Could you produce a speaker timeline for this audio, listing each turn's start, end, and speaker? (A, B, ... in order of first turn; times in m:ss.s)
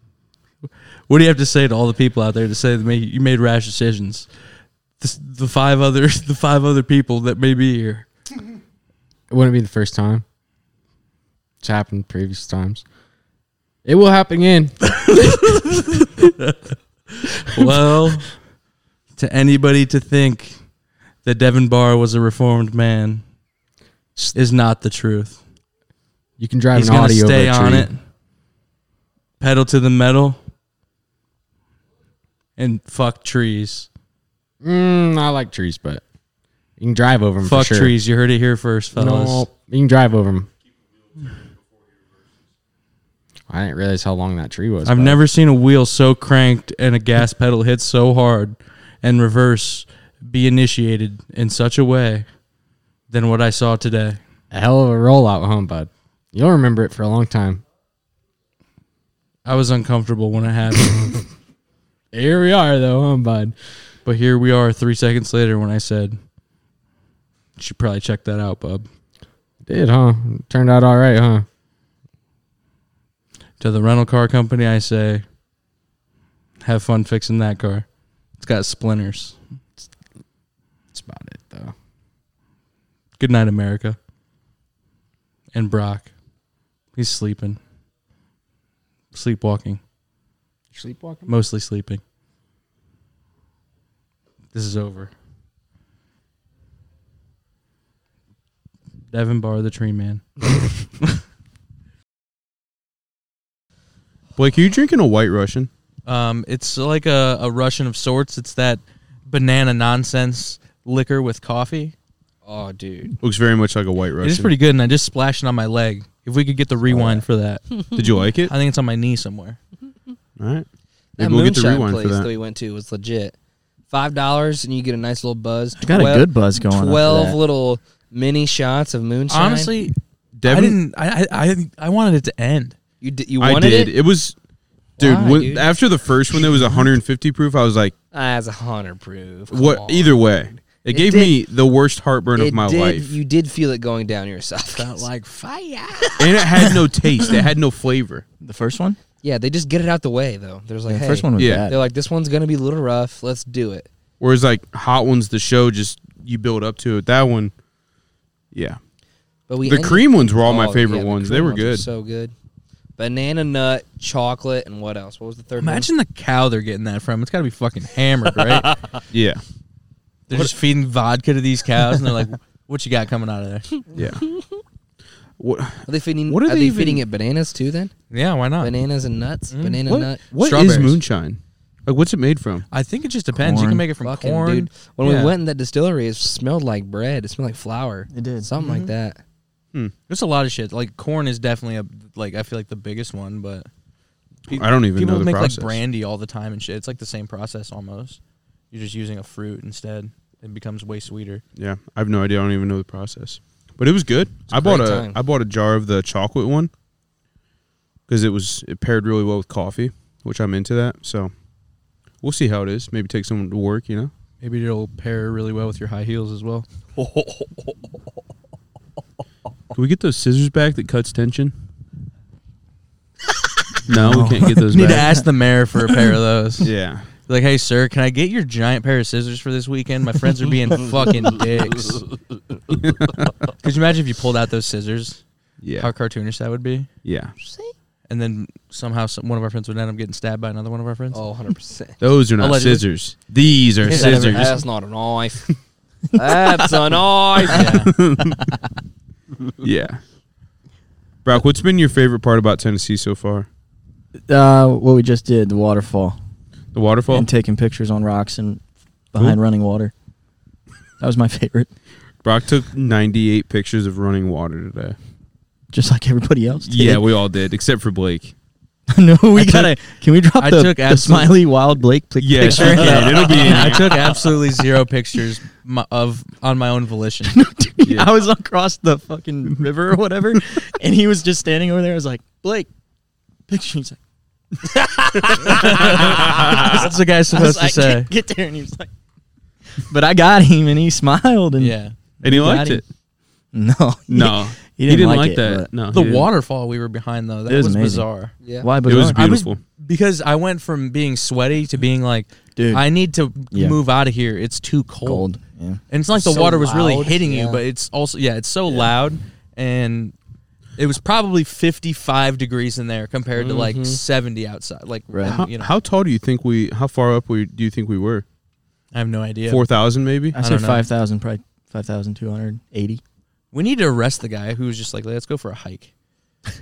0:01.1-0:04.3 A
0:05.0-0:08.1 A
0:09.3-0:10.2 B
0:11.6-0:12.8 B
0:13.8-0:16.3 B
0:15.2-0:16.6 A
0:17.2-0:18.4 A
0:17.6-0:17.9 B
0:19.2-0:20.6 A
0:21.2-0:23.2 A
0:24.3-0:25.4 A
0:26.4-0:27.9 B
0:26.7-0:28.0 A
0:29.4-0:30.4 A
0:32.6-0:33.9 A
0:34.6-0:36.0 B
0:36.8-0:38.0 B
0:37.4-0:39.5 A
0:39.0-0:40.5 B
0:43.5-0:45.2 B
0:44.8-0:52.2 A
0:53.1-0:54.2 A
0:54.5-0:57.6 B
0:59.5-1:01.2 A
1:02.1-1:03.5 B
1:04.0-1:06.2 A
1:07.6-1:08.9 A
1:09.7-1:11.4 B
1:13.6-1:15.2 A
1:16.6-1:17.9 A
1:18.4-1:19.4 A
1:20.9-1:21.7 B
1:23.2-1:24.0 A
1:25.5-1:26.1 A
1:26.9-1:27.6 A
1:29.1-1:29.8 A
1:30.7-1:31.3 B
1:31.3-1:32.0 A
1:34.5-1:35.1 A
1:39.1-1:40.2 A
1:44.4-1:45.7 C
1:46.1-1:51.9 A
1:52.4-1:53.2 D
1:53.2-1:54.5 C
1:54.2-1:57.6 A
1:56.9-1:57.2 E
1:57.9-1:58.5 C
1:58.5-1:59.6 A
2:00.4-2:00.7 C
2:01.2-2:02.3 C
2:01.2-2:03.4 D
2:03.9-2:09.7 D
2:05.8-2:07.4 E
2:09.3-2:12.8 A
2:10.4-2:10.8 C
2:13.0-2:13.9 D
2:13.4-2:14.4 C
2:15.0-2:15.7 D
2:15.0-2:18.0 C
2:18.1-2:21.4 D
2:19.5-2:23.2 C
2:22.4-2:25.1 D
2:24.7-2:26.2 A
2:26.2-2:28.2 C
2:28.4-2:29.0 E
2:29.2-2:33.9 D
2:30.9-2:31.8 E
2:31.4-2:31.7 C
2:34.2-2:37.5 C
2:38.5-2:38.8 C
2:39.5-2:42.3 D
2:39.6-2:41.9 C
2:43.0-2:45.9 D
2:45.6-2:48.7 A
2:49.1-2:49.4 C
2:50.3-2:53.7 A
2:53.9-2:54.2 C
2:54.0-2:54.4 D
2:55.4-2:57.0 C
2:55.9-2:57.9 D
2:58.1-2:58.7 A
2:58.6-3:00.8 D
2:59.5-3:01.0 A
2:59.9-3:02.7 C
3:02.7-3:05.3 A
3:03.3-3:03.8 E
3:04.0-3:09.2 D
3:08.1-3:08.7 E
3:08.6-3:08.9 A
3:10.1-3:13.7 A
3:14.5-3:18.2 A
3:14.5-3:15.8 C
3:18.7-3:21.4 A
3:21.6-3:26.7 C
3:24.5-3:25.2 D
3:28.1-3:31.3 C
3:32.2-3:34.1 C
3:34.4-3:36.7 A
3:37.0-3:37.7 D
3:39.7-3:41.5 C
3:43.9-3:45.1 C
3:43.9-3:45.2 E
3:44.7-3:46.7 A
3:46.6-3:47.1 C
3:47.3-3:52.0 A
3:52.7-3:53.3 C
3:53.6-3:55.2 A
3:55.6-3:55.9 C
3:55.8-3:56.9 A
3:57.0-3:57.4 C
3:57.4-3:57.7 D
3:58.1-4:01.2 A
4:01.1-4:02.0 D
4:02.0-4:04.6 C
4:02.4-4:02.8 A
4:03.8-4:04.6 E
4:03.9-4:05.6 D
4:06.1-4:07.0 E
4:06.1-4:07.9 D
4:07.5-4:07.9 A
4:07.5-4:08.4 C
4:09.6-4:10.0 C
4:11.2-4:13.5 C
4:14.3-4:16.2 E
4:16.7-4:17.3 C
4:17.1-4:19.9 E
4:21.0-4:21.7 E
4:22.2-4:25.0 C
4:25.7-4:27.1 E
4:26.6-4:28.3 C
4:28.9-4:34.1 E
4:29.4-4:29.7 A
4:30.4-4:31.3 A
4:32.2-4:34.0 C
4:32.4-4:37.4 A
4:37.3-4:42.7 E
4:43.5-4:44.0 E
4:45.3-4:48.9 E
4:45.5-4:48.1 A
4:49.8-4:52.8 E
4:51.6-4:52.0 A
4:52.2-4:52.9 C
4:53.5-4:55.7 E
4:54.1-4:56.3 C
4:55.9-4:58.3 A
4:57.5-4:58.1 E
4:58.4-4:58.7 D
4:58.6-4:59.3 E
4:58.8-4:59.6 C
4:59.2-5:05.3 A
5:02.6-5:02.9 E
5:03.5-5:03.8 E
5:05.0-5:05.8 E
5:05.9-5:10.2 A
5:06.2-5:07.6 D
5:10.8-5:15.7 A
5:13.4-5:14.0 D
5:15.1-5:15.4 E
5:15.2-5:18.2 C
5:18.9-5:19.6 A
5:19.5-5:20.4 C
5:20.3-5:23.0 E
5:20.4-5:20.9 A
5:23.5-5:25.9 A